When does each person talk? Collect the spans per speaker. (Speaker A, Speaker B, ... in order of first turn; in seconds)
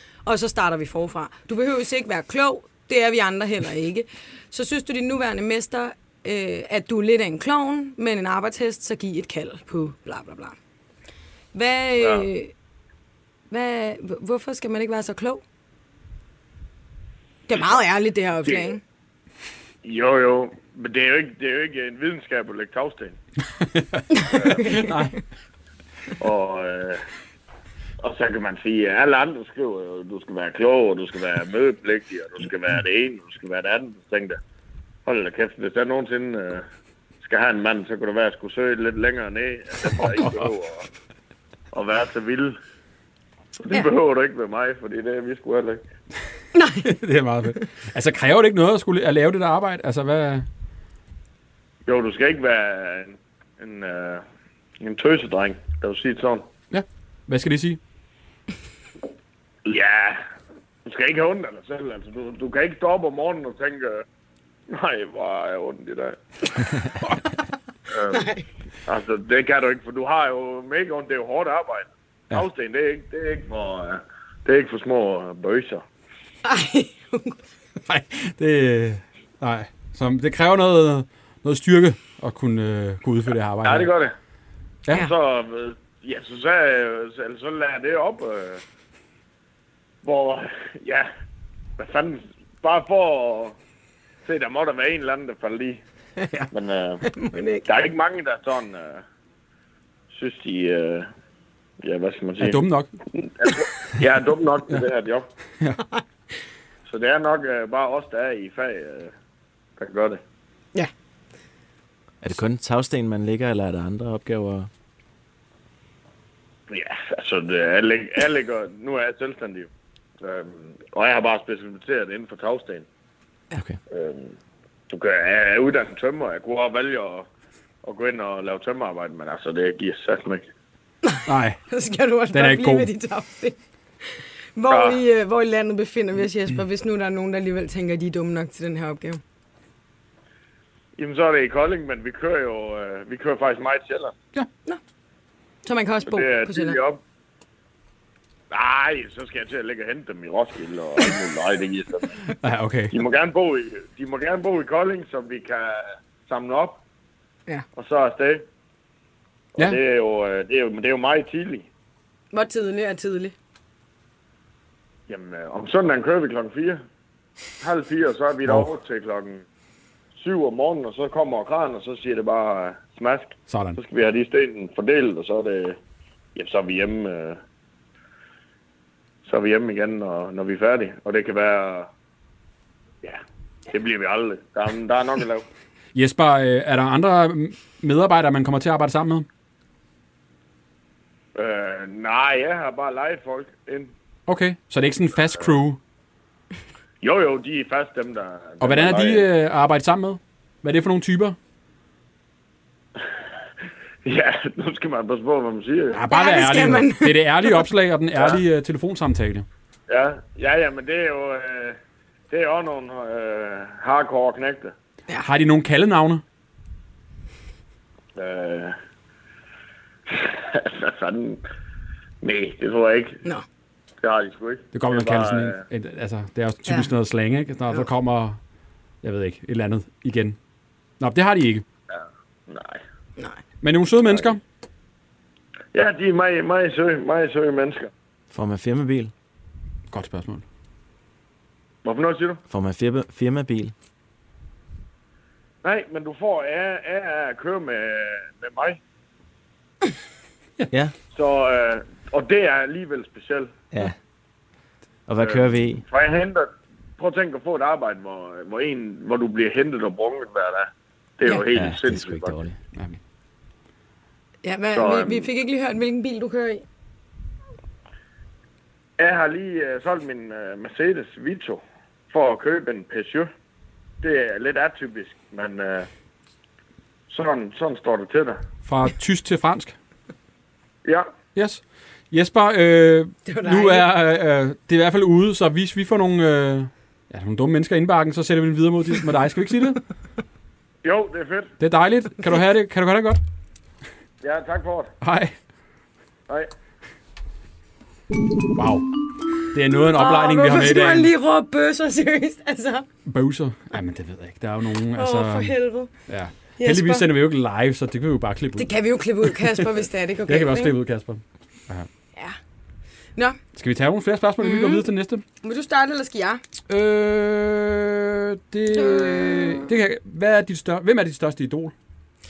Speaker A: 0.2-10.6, 11.5-12.5, 13.5-15.4, 17.5-18.8, 24.1-25.0, 46.5-46.9, 68.1-68.5, 76.4-77.4, 97.0-97.7, 131.0-133.6, 134.1-139.2, 145.6-146.8, 162.3-163.3, 206.1-207.1, 264.4-266.6, 283.2-283.9, 299.9-302.9, 304.9-305.9, 306.6-307.1, 308.6-310.7, 314.4-314.9, 315.4-316.4, 318.7-319.7
Speaker B: 12.0-12.3, 18.4-18.8, 19.8-23.1, 24.3-24.9, 26.2-27.0, 28.0-34.4, 35.0-36.6, 37.2-40.8, 41.7-42.5, 43.6-45.8, 51.9-54.2, 54.8-56.5, 59.6-60.2, 60.8-64.0, 64.7-66.2, 67.9-68.2, 68.8-75.8, 83.6-84.1, 84.9-88.6, 90.0-91.1, 91.8-93.5, 94.2-95.8, 96.5-97.0, 97.6-99.0, 100.1-101.1, 101.8-105.3, 106.9-109.1, 109.8-110.2, 116.7-119.7, 120.2-122.8, 123.9-124.3, 124.9-127.3, 127.8-130.4, 134.7-135.0, 141.0-144.1, 146.1-147.0, 148.5-152.2, 152.9-156.8, 157.8-158.4, 159.5-161.7, 165.1-166.8, 167.6-169.4, 170.1-175.8, 176.3-177.4, 179.2-181.9, 183.0-185.4, 191.3-193.9, 197.0-199.3, 204.0-206.0, 209.9-211.8, 212.3-214.7, 218.2-218.8, 220.1-221.4, 222.2-223.2, 224.0-225.6, 231.9-232.8, 235.7-237.9, 241.8-242.4, 245.6-248.8, 251.1-253.5, 255.2-262.4, 264.7-265.3, 269.0-273.3, 274.0-275.9, 277.1-278.4, 280.8-281.1, 290.8-291.5, 294.2-294.9
Speaker C: 23.6-24.1, 24.6-25.2, 40.0-40.5, 46.8-50.5, 56.7-57.8, 77.9-83.9, 102.4-102.9, 131.2-131.6, 132.3-132.9, 152.4-152.9, 173.5-173.8, 185.9-189.3, 194.3-195.8, 198.6-201.3, 205.9-209.4, 215.2-216.2, 224.7-228.4, 229.0-230.4, 231.0-231.6, 233.6-234.4, 239.9-240.4, 278.6-279.7, 281.4-289.8, 291.6-293.2, 295.0-295.3, 298.5-301.1, 303.1-309.6, 310.2-311.9, 313.5-315.2, 316.7-321.7
Speaker D: 112.2-114.7, 123.5-123.8, 238.3-239.1, 242.5-243.7, 253.7-254.0, 255.1-255.8, 261.5-262.6